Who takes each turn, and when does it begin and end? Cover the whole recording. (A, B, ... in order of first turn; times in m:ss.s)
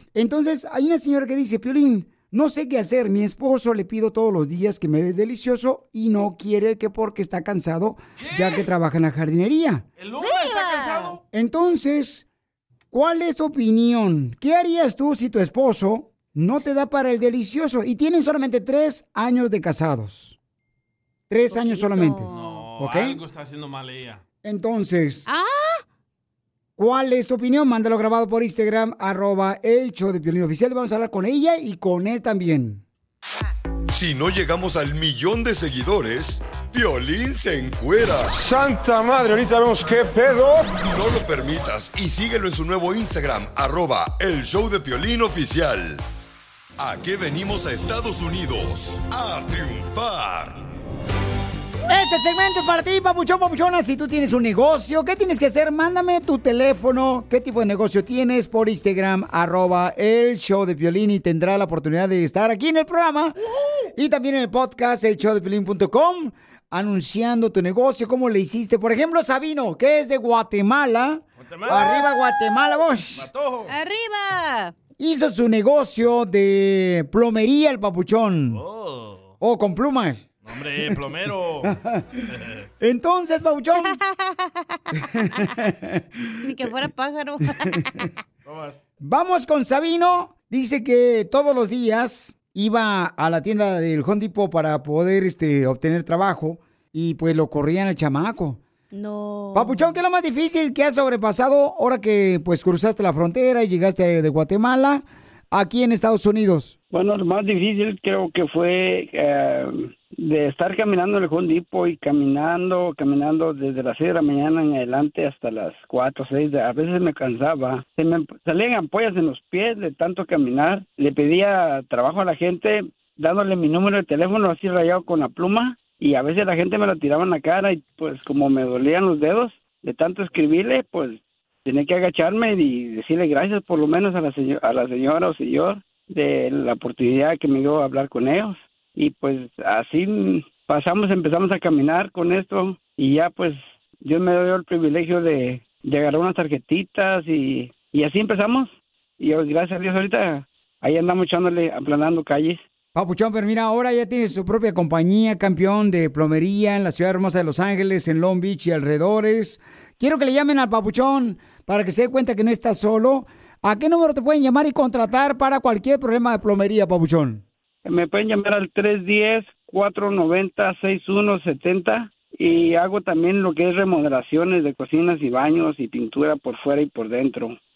0:00.2-0:09.8 A
0:08.2-0:08.7 B
0:10.0-0:11.2 B
0:10.2-0:11.2 C
0:11.3-0:12.3 A
0:12.9-0:20.4 A
0:21.3-0:23.2 A
0:21.5-0:22.7 C
0:22.3-0:24.2 B
0:24.4-0:25.3 A
0:25.3-0:25.8 C
0:26.8-0:32.8 A
0:33.9-0:38.4 D
0:38.3-0:40.9 E
0:40.9-0:46.0 D
0:46.8-0:50.6 D
0:51.9-1:03.4 A
1:04.0-1:13.3 A
1:11.4-1:12.0 B
1:11.7-1:12.1 C
1:13.2-1:13.7 B
1:13.7-1:14.7 C
1:15.0-1:18.6 A
1:18.5-1:19.4 B
1:19.4-1:20.3 A
1:20.4-1:21.8 B
1:21.6-1:22.1 A
1:22.3-1:22.6 B
1:22.8-1:24.0 A
1:25.1-1:26.3 A
1:26.4-1:27.7 C
1:28.4-1:28.8 B
1:29.0-1:38.6 A
1:38.9-1:39.9 C
1:39.5-1:46.8 A
1:46.9-2:32.6 F
2:33.0-2:47.4 A
2:47.8-2:57.6 F